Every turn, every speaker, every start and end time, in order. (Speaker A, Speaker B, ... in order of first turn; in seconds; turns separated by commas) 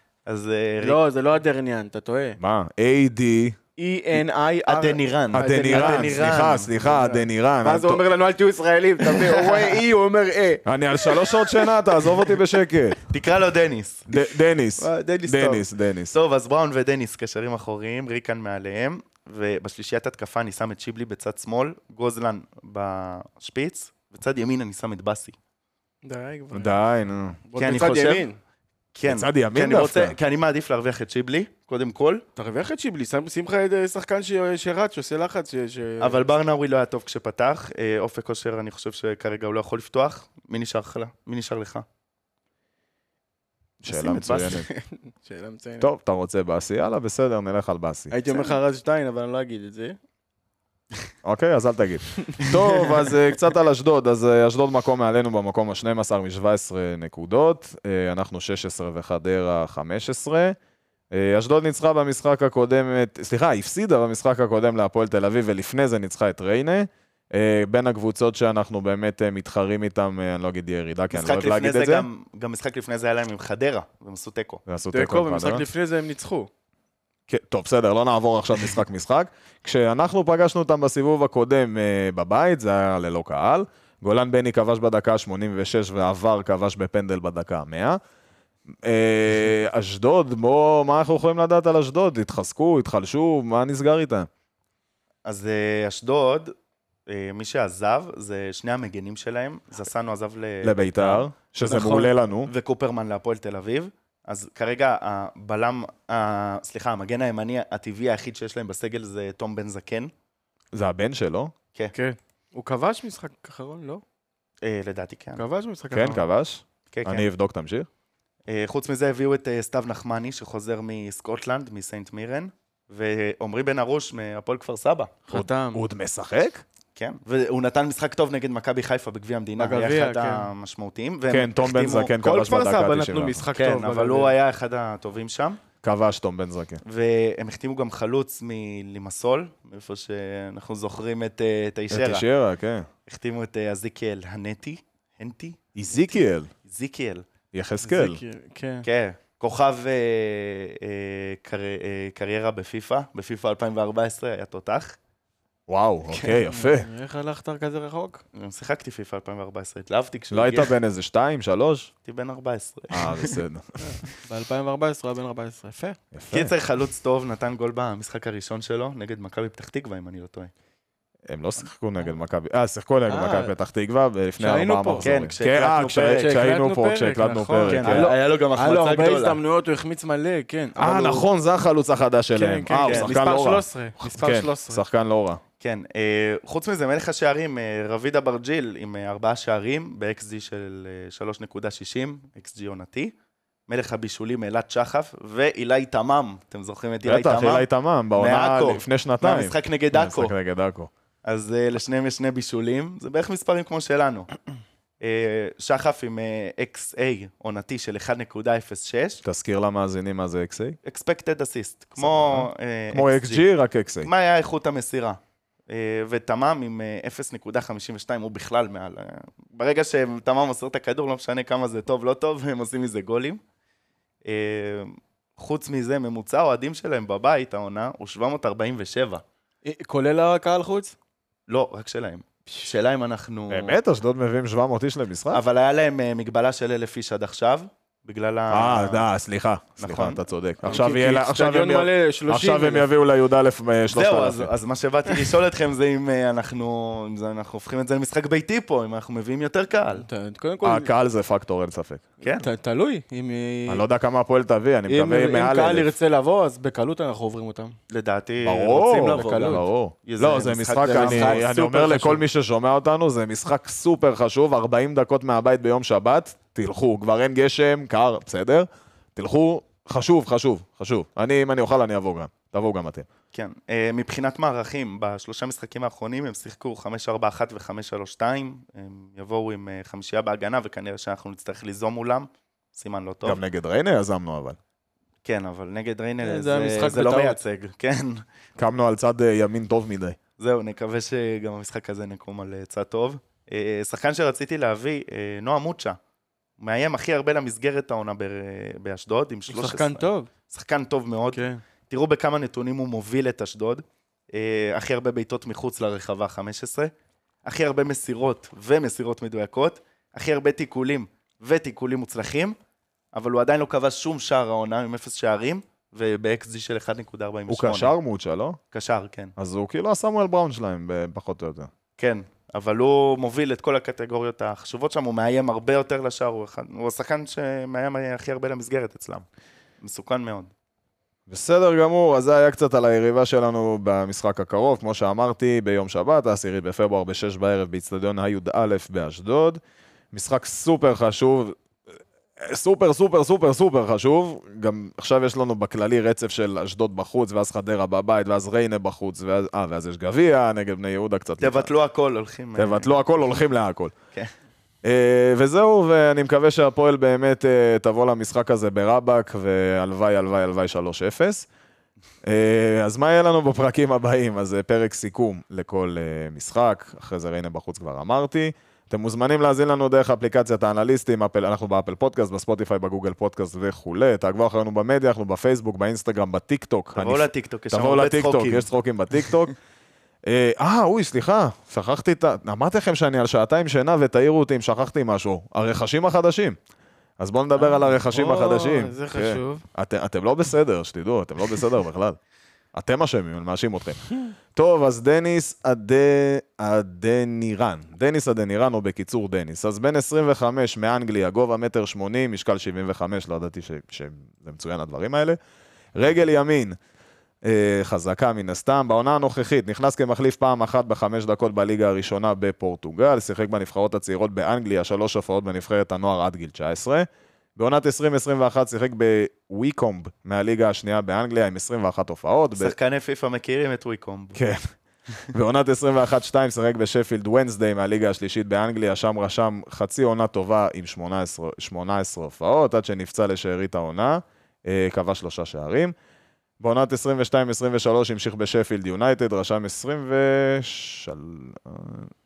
Speaker A: 0.3-1.0, Speaker B: 0.8-2.4, Speaker C: 2.4-3.6, Speaker B: 3.8-6.2, Speaker A: 4.7-6.7, Speaker C: 5.3-8.0, Speaker B: 6.8-11.2, Speaker A: 9.1-9.8, Speaker C: 10.6-13.0, Speaker A: 13.1-14.1, Speaker C: 14.1-16.1, Speaker B: 14.8-15.6, Speaker A: 16.1-25.4, Speaker B: 26.0-26.8, Speaker C: 26.5-27.4, Speaker B: 27.5-28.4, Speaker A: 27.6-28.3, Speaker A: 28.9-32.2, Speaker C: 29.1-30.1, Speaker B: 32.4-36.3, Speaker A: 36.0-41.8, Speaker C: 43.8-44.7, Speaker A: 43.9-44.6, Speaker B: 44.4-45.9, Speaker C: 45.8-48.1, Speaker B: 48.1-50.0, Speaker A: 48.3-48.5, Speaker C: 51.2-60.6, Speaker C: 61.1-72.1, Speaker A: 71.1-74.6, Speaker C: 74.7-75.6, Speaker B: 74.9-76.5, Speaker C: 77.3-88.0, Speaker C: 88.8-94.3, Speaker A: 95.2-96.5, Speaker A: 97.1-110.1, Speaker C: 100.6-102.5, Speaker B: 101.7-102.1, Speaker C: 110.7-111.5, Speaker B: 111.9-114.0, Speaker A: 114.6-115.4, Speaker B: 115.4-116.2, Speaker C: 115.9-117.9, Speaker A: 116.9-117.3, Speaker A: 118.5-125.2, Speaker B: 125.3-125.8, Speaker C: 125.3-126.6, Speaker A: 127.0-132.1, Speaker B: 129.6-130.5, Speaker C: 131.3-133.4, Speaker B: 132.2-134.3, Speaker A: 133.6-135.6, Speaker C: 135.8-136.8, Speaker A: 136.8-142.2, Speaker C: 141.9-142.9, Speaker A: 143.1-145.6, Speaker C: 145.7-146.5, Speaker A: 146.6-147.3, Speaker C: 147.5-148.2, Speaker B: 147.8-148.9, Speaker A: 148.8-155.0, Speaker C: 155.7-156.9, Speaker B: 156.3-158.2, Speaker A: 158.3-160.7, Speaker C: 160.3-161.9, Speaker A: 162.1-163.4, Speaker C: 162.9-163.9, Speaker B: 163.8-166.0, Speaker C: 166.1-166.5, Speaker A: 166.3-170.5, Speaker C: 171.3-178.1, Speaker B: 173.1-173.5, Speaker B: 174.4-175.1, Speaker A: 175.0-176.4, Speaker B: 176.0-181.3, Speaker A: 177.7-179.4, Speaker C: 180.8-185.4, Speaker B: 182.3-184.8, Speaker A: 182.8-183.2, Speaker A: 185.6-193.1, Speaker A: 193.7-200.3, Speaker C: 197.0-200.9, Speaker A: 201.2-204.3, Speaker A: 205.0-209.2, Speaker C: 209.2-210.8, Speaker A: 210.8-213.4, Speaker C: 212.0-214.1, Speaker A: 214.0-223.4, Speaker A: 224.2-229.2, Speaker B: 229.6-230.9, Speaker A: 231.5-233.8, Speaker C: 233.5-235.4, Speaker A: 235.3-239.1, Speaker C: 238.5-244.5, Speaker A: 239.8-240.2, Speaker B: 240.6-242.9, Speaker A: 243.9-250.1, Speaker B: 250.0-250.9, Speaker C: 250.6-252.1, Speaker A: 252.2-252.4, Speaker B: 252.3-253.8, Speaker C: 253.7-255.9, Speaker B: 254.9-257.7, Speaker A: 257.9-261.4, Speaker C: 258.4-273.1, Speaker B: 259.1-259.6, Speaker B: 260.8-262.2, Speaker A: 273.3-283.4, Speaker C: 283.2-284.6, Speaker A: 285.2-288.2, Speaker B: 286.2-287.4, Speaker C: 288.6-290.2, Speaker A: 290.4-296.0, Speaker A: 296.6-306.9, Speaker B: 299.5-300.3, Speaker B: 301.3-301.6, Speaker A: 307.4-312.6, Speaker A: 313.1-317.9, Speaker C: 317.5-318.6, Speaker A: 318.7-319.3, Speaker C: 319.4-321.7, Speaker A: 322.0-329.2, Speaker A: 329.8-330.5, Speaker C: 331.3-339.6, Speaker C: 340.1-341.6, Speaker C: 342.4-351.7, Speaker A: 351.4-352.9, Speaker C: 352.6-353.9, Speaker C: 354.8-361.5, Speaker C: 362.2-379.5, Speaker A: 376.9-379.5, Speaker C: 380.3-386.6, Speaker C: 387.2-392.2, Speaker B: 387.6-389.6, Speaker C: 392.7-405.4, Speaker C: 405.9-406.8, Speaker C: 407.4-422.7, Speaker A: 422.6-424.4, Speaker C: 424.3-424.6, Speaker C: 425.3-435.9, Speaker C: 436.6-442.1